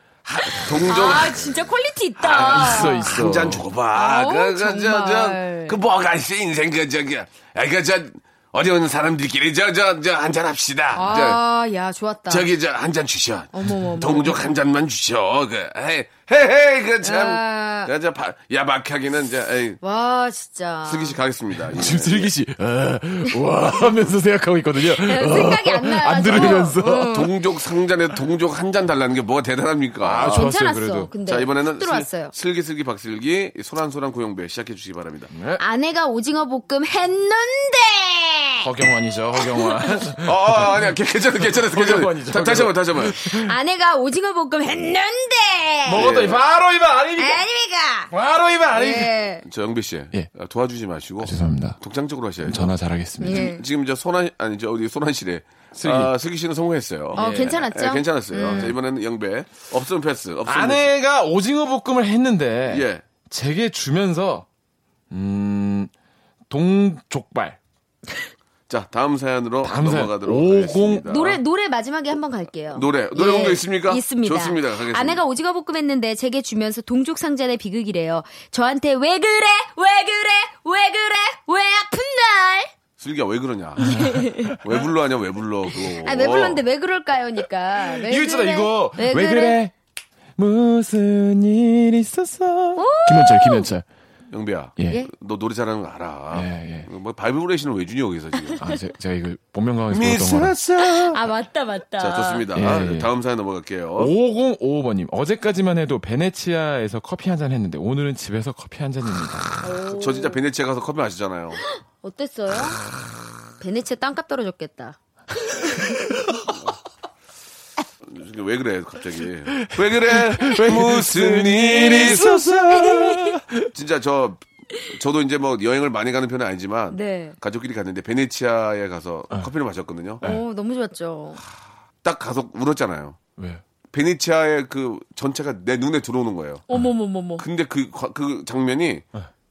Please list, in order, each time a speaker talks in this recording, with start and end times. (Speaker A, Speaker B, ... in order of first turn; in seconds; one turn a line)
Speaker A: 0.2-1.5
Speaker B: 0.8-3.1
Speaker A: 2.2-11.4
Speaker C: 2.3-3.6
Speaker B: 3.9-5.8
Speaker B: 10.9-12.5
Speaker A: 12.3-19.8
Speaker B: 13.5-14.4
Speaker B: 17.0-17.9
Speaker B: 19.8-21.2
Speaker A: 20.9-22.3
Speaker C: 21.7-27.2
Speaker B: 24.9-27.3
Speaker A: 26.3-30.5
Speaker C: 30.0-31.1
Speaker B: 30.2-32.3
Speaker A: 31.2-35.3
Speaker C: 35.3-35.6
Speaker B: 35.6-38.6
Speaker C: 38.6-40.8
Speaker B: 39.4-40.0
Speaker A: 40.2-43.2
Speaker C: 41.4-43.5
Speaker B: 43.2-46.1
Speaker C: 45.9-47.4
Speaker A: 45.9-46.4
Speaker B: 47.2-48.1
Speaker C: 48.1-49.1
Speaker B: 48.7-49.4
Speaker A: 49.4-60.9
Speaker C: 51.2-51.8
Speaker C: 52.4-53.5
Speaker B: 53.2-53.6
Speaker C: 55.8-56.1
Speaker B: 57.1-58.7
Speaker C: 57.2-57.5
Speaker C: 58.5-58.7
Speaker C: 60.5-64.5
Speaker A: 62.7-63.0
Speaker C: 65.1-65.9
Speaker C: 66.5-67.6
Speaker A: 68.7-71.3
Speaker C: 69.6-71.4
Speaker B: 71.1-82.7
Speaker A: 72.7-75.2
Speaker A: 83.0-83.9
Speaker B: 83.8-84.6
Speaker C: 83.8-84.5
Speaker A: 84.5-86.6
Speaker B: 85.7-89.6
Speaker C: 87.9-89.7
Speaker C: 90.4-93.8
Speaker B: 92.8-93.7
Speaker A: 94.3-98.6
Speaker C: 96.3-96.9
Speaker B: 98.4-98.8
Speaker C: 98.6-100.5
Speaker A: 99.9-101.2
Speaker B: 100.8-102.5
Speaker A: 102.0-104.1
Speaker C: 102.5-103.1
Speaker C: 104.0-109.6
Speaker B: 109.6-110.4
Speaker A: 109.9-111.6
Speaker B: 111.7-112.8
Speaker B: 113.6-116.0
Speaker C: 116.0-116.4
Speaker A: 118.0-122.6
Speaker C: 119.5-123.7
Speaker B: 122.7-123.4
Speaker A: 123.6-130.2
Speaker B: 126.9-127.3
Speaker B: 130.2-131.4
Speaker A: 132.0-133.2
Speaker C: 133.4-133.6
Speaker A: 133.9-136.6
Speaker B: 136.7-137.4
Speaker A: 137.4-139.1